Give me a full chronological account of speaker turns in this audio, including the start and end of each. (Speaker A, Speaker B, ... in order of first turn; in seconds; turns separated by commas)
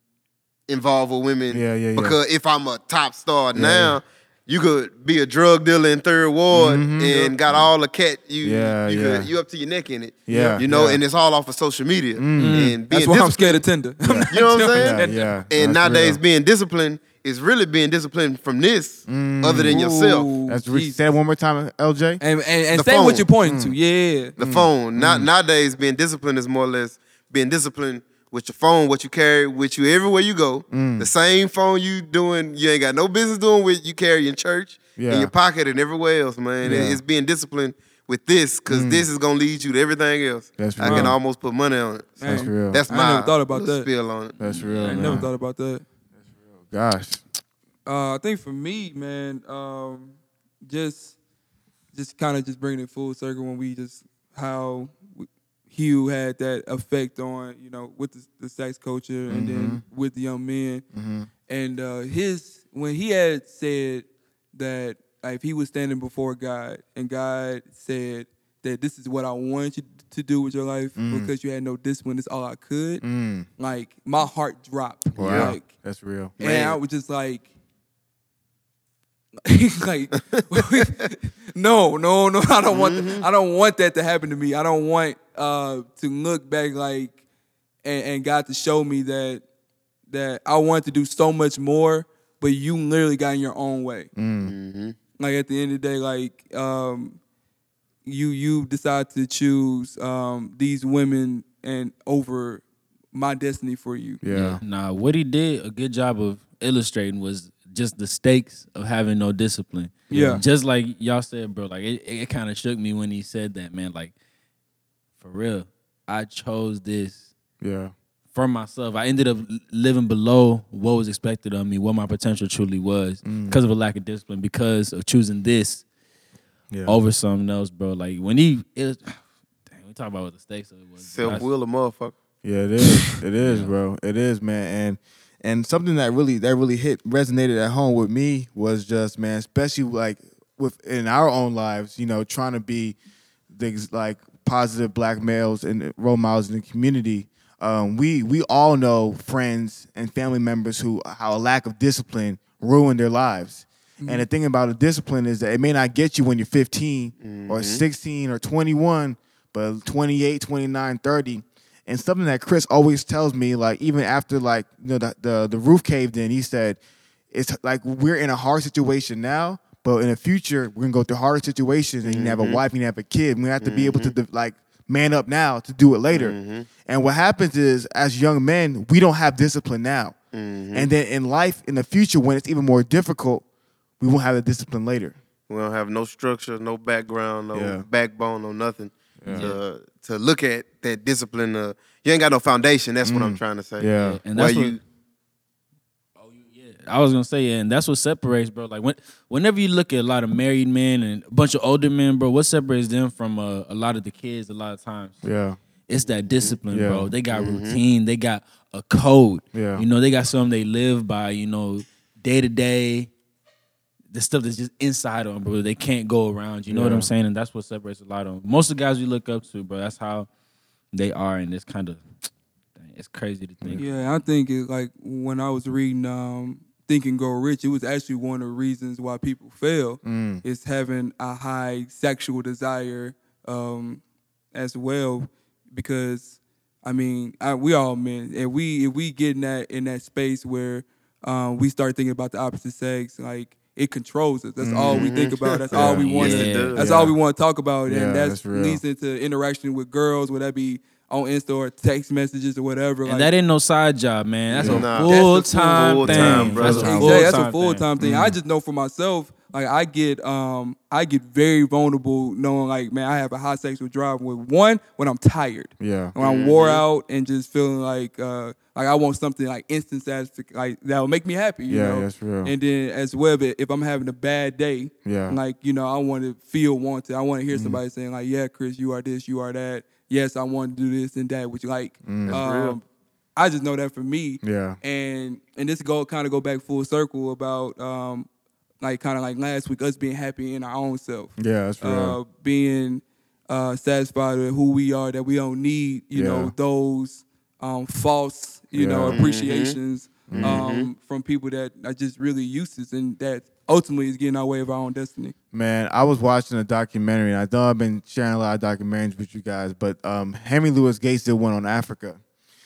Speaker A: 0.7-13.6, Speaker B: 1.5-2.2, Speaker B: 3.5-4.0, Speaker B: 6.5-7.7, Speaker B: 8.4-9.3, Speaker B: 10.3-11.0, Speaker C: 10.3-10.6, Speaker B: 12.2-12.7, Speaker D: 12.4-12.8, Speaker C: 12.9-15.3, Speaker B: 14.0-16.2, Speaker A: 14.3-20.3, Speaker B: 19.1-19.8, Speaker C: 19.7-20.9, Speaker B: 20.4-22.2, Speaker C: 22.2-24.3, Speaker A: 22.7-23.3, Speaker B: 23.4-23.7, Speaker A: 24.4-45.0, Speaker B: 24.4-25.3, Speaker B: 30.7-31.1, Speaker B: 35.0-35.3, Speaker B: 36.6-37.0, Speaker B: 38.7-39.0, Speaker B: 40.6-41.1, Speaker C: 40.8-41.1, Speaker C: 42.2-43.9, Speaker B: 42.2-42.8, Speaker B: 44.4-45.3, Speaker D: 44.7-45.2, Speaker C: 44.7-45.8, Speaker B: 46.7-47.2, Speaker C: 47.9-50.1, Speaker C: 50.6-51.1, Speaker C: 51.9-60.8, Speaker B: 59.3-59.8, Speaker B: 60.9-61.3, Speaker C: 61.5-73.0, Speaker B: 71.0-71.3, Speaker B: 73.0-73.5, Speaker C: 73.6-75.7, Speaker B: 75.2-76.3, Speaker A: 75.2-75.5, Speaker A: 76.4-76.8, Speaker C: 76.4-77.4, Speaker C: 79.4-87.1, Speaker A: 82.7-83.2, Speaker C: 87.8-89.4, Speaker C: 90.1-94.1, Speaker B: 94.2-94.5, Speaker A: 94.4-95.0, Speaker C: 95.2-97.2, Speaker C: 98.0-104.2, Speaker B: 104.2-104.6, Speaker D: 104.3-114.1, Speaker C: 110.1-110.4, Speaker B: 110.1-110.4, Speaker D: 115.2-117.2, Speaker B: 117.6-117.9, Speaker D: 118.3-125.8, Speaker B: 123.2-123.6, Speaker B: 126.7-127.0, Speaker D: 126.8-131.5, Speaker A: 131.0-132.1, Speaker B: 132.4-142.9, Speaker D: 133.4-133.7, Speaker B: 143.5-166.8, Speaker C: 154.0-154.2, Speaker A: 157.2-157.8, Speaker B: 167.3-180.1, Speaker A: 172.0-172.6, Speaker A: 173.6-174.1, Speaker A: 176.1-176.7, Speaker A: 180.3-180.9, Speaker B: 180.7-183.4, Speaker B: 184.0-185.2, Speaker A: 185.5-194.8, Speaker B: 187.5-187.8, Speaker B: 189.2-189.5, Speaker D: 189.3-189.6, Speaker B: 193.0-194.2, Speaker D: 194.0-194.8, Speaker D: 196.2-205.2, Speaker B: 205.2-205.6, Speaker D: 205.9-213.1, Speaker A: 206.3-206.6, Speaker B: 206.7-207.1, Speaker A: 207.3-207.8, Speaker B: 209.5-209.8, Speaker D: 214.1-220.3, Speaker B: 216.7-217.1, Speaker D: 220.9-222.0, Speaker D: 222.8-223.9, Speaker C: 223.8-234.0, Speaker B: 230.0-230.4, Speaker C: 234.5-253.3, Speaker B: 244.6-245.1, Speaker A: 244.9-246.8, Speaker B: 245.7-246.1, Speaker D: 245.8-246.8, Speaker B: 246.8-247.2, Speaker B: 247.9-248.8, Speaker D: 253.1-257.9, Speaker A: 254.5-257.2, Speaker B: 254.6-254.9, Speaker C: 255.0-282.8, Speaker B: 256.0-257.3, Speaker B: 258.0-258.4, Speaker B: 265.8-266.1, Speaker A: 266.2-266.8, Speaker B: 271.7-272.5, Speaker B: 275.0-275.4, Speaker B: 277.5-277.8, Speaker B: 282.1-282.4, Speaker A: 282.2-282.8, Speaker C: 283.4-288.3, Speaker B: 284.4-284.8, Speaker C: 288.8-305.3, Speaker B: 291.4-292.2, Speaker B: 296.1-296.5, Speaker B: 298.7-299.2, Speaker A: 299.1-299.8, Speaker B: 300.3-300.6, Speaker A: 300.4-300.9, Speaker B: 305.5-312.2